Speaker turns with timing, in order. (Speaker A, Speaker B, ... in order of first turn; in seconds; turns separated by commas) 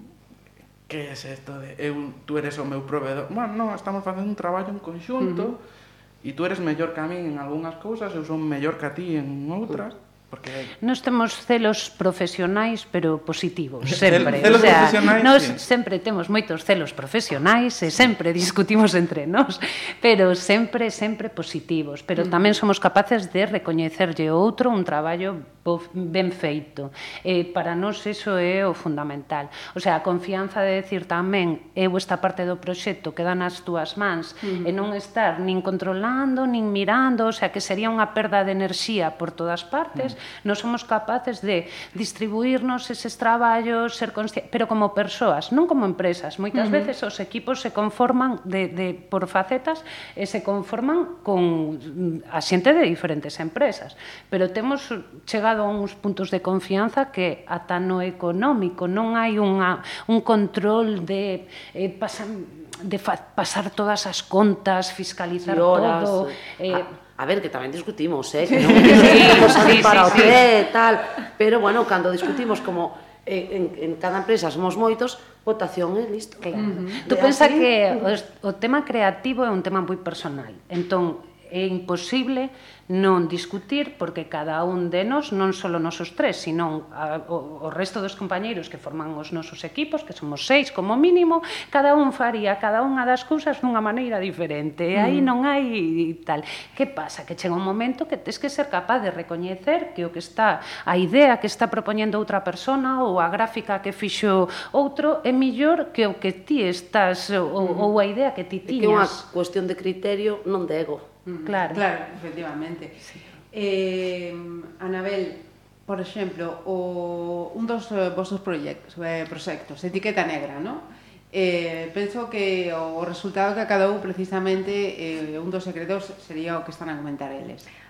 Speaker A: 0.9-5.6, Speaker B: 5.2-5.5, Speaker A: 6.2-10.7, Speaker C: 10.8-66.8, Speaker A: 13.9-15.6, Speaker B: 22.2-22.5, Speaker B: 34.4-34.8, Speaker B: 46.5-46.9, Speaker D: 65.4-77.8, Speaker B: 68.5-70.4, Speaker C: 68.8-70.4, Speaker C: 76.4-109.2, Speaker B: 76.6-77.0, Speaker B: 94.9-95.3, Speaker B: 107.6-107.9, Speaker D: 108.7-111.1, Speaker B: 111.3-127.7, Speaker C: 111.5-111.8